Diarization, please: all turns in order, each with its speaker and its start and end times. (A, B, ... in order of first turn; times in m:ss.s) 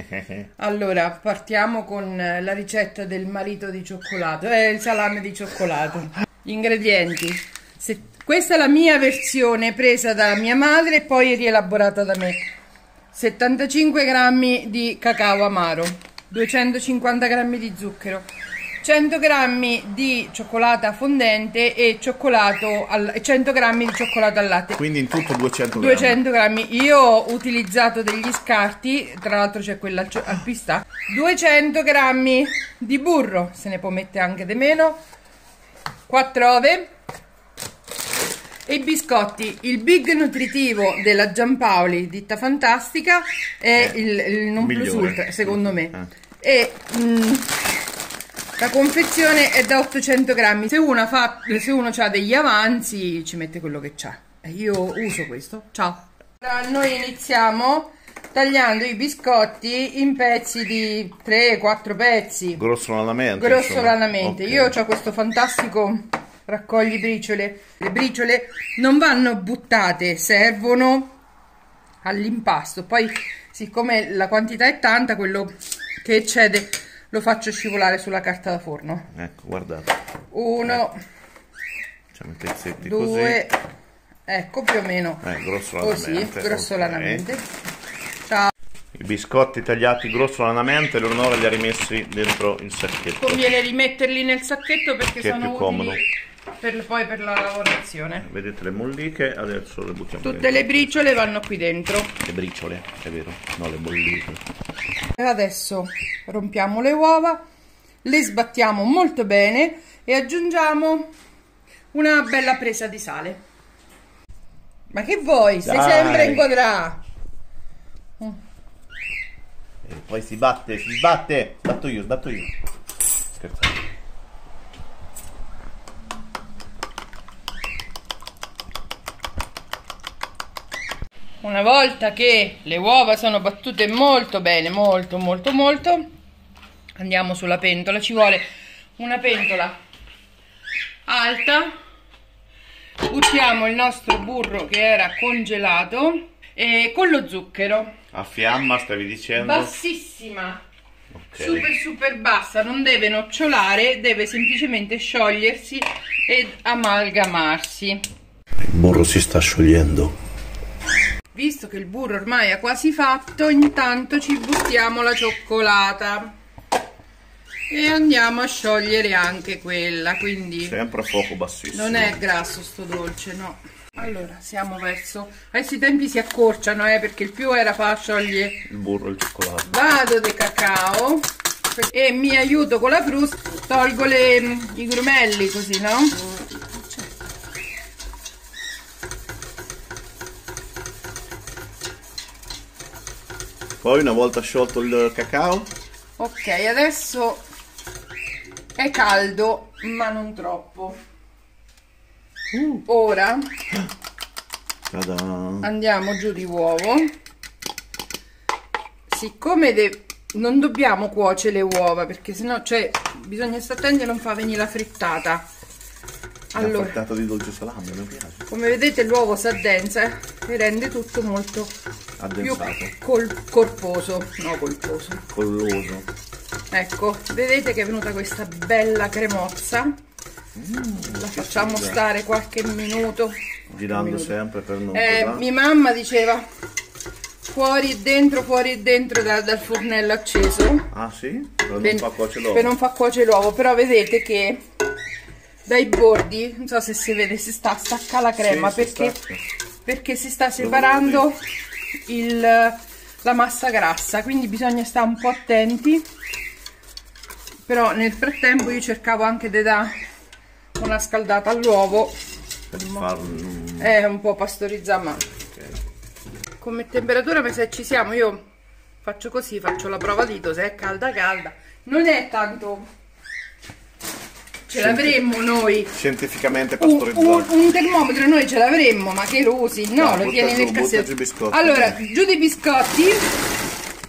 0:00.6-0:12.4 A
0:13.1-0:18.3 A
0:18.8-0:24.8 A
0:24.8-0:26.2 B
0:25.8-0:35.0 A
0:36.1-0:36.9 A
0:38.7-0:47.6 A
0:44.6-0:46.0 B
0:48.6-1:02.6 A
1:02.6-1:04.8 B
1:03.4-1:11.1 A
1:12.0-1:19.1 A
1:19.1-1:20.0 B
1:20.3-1:21.0 A
1:22.1-1:23.4 B
1:22.8-1:23.6 A
1:24.3-1:25.3 A
1:25.2-1:27.3 B
1:25.8-1:27.5 A
1:28.9-1:33.5 B
1:33.2-1:36.1 A
1:35.2-1:36.0 B
1:36.6-1:38.3 A
1:38.2-1:41.1 B
1:40.2-1:42.2 A
1:42.2-1:44.4 B
1:45.2-1:47.4 A
1:48.0-1:51.1 A
1:51.9-1:53.4 A
1:54.9-1:57.0 A
1:55.6-1:56.5 B
1:59.8-2:02.5 B
2:03.4-2:03.8 B
2:11.4-2:16.0 A
2:17.0-2:18.4 A
2:19.0-2:19.8 A
2:21.1-2:21.7 A
2:23.1-2:27.9 A
2:28.1-2:29.7 B
2:29.4-2:30.6 A
2:31.1-2:31.7 B
2:31.4-2:38.0 A
2:38.6-2:40.2 B
2:41.3-2:46.3 A
2:47.7-2:50.8 A
2:50.6-2:52.2 B
2:51.7-2:58.6 A
2:58.6-2:59.7 B
2:59.6-3:06.2 A
3:13.8-3:15.7 B
3:16.2-3:17.4 A
3:18.8-3:21.0 A
3:22.5-3:22.8 B
3:22.8-3:23.4 A
3:24.9-3:25.7 B
3:25.6-3:27.1 A
3:29.1-3:35.5 A
3:36.5-3:37.0 A
3:36.6-3:38.4 B
3:38.5-3:41.8 A
3:42.2-3:42.9 B
3:42.4-3:45.2 A
3:45.3-3:46.1 B
3:46.7-3:50.0 A
3:50.6-3:52.0 B
3:51.1-3:54.4 A
3:53.7-3:55.4 B
3:54.9-3:56.4 A
3:57.4-4:00.9 A
4:00.9-4:02.7 B
4:01.8-4:04.6 A
4:05.6-4:09.2 A
4:08.4-4:09.4 B
4:09.8-4:11.4 A
4:10.6-4:11.3 B
4:12.1-4:16.1 A
4:17.7-4:19.9 A
4:20.8-4:22.1 A
4:22.7-4:24.0 B
4:22.7-4:23.1 A
4:23.8-4:25.3 A
4:26.6-4:28.4 A
4:29.0-4:32.9 A
4:34.7-4:35.2 B
4:34.7-4:35.9 A
4:35.9-4:37.5 B
4:36.8-4:43.3 A
4:40.0-4:42.0 B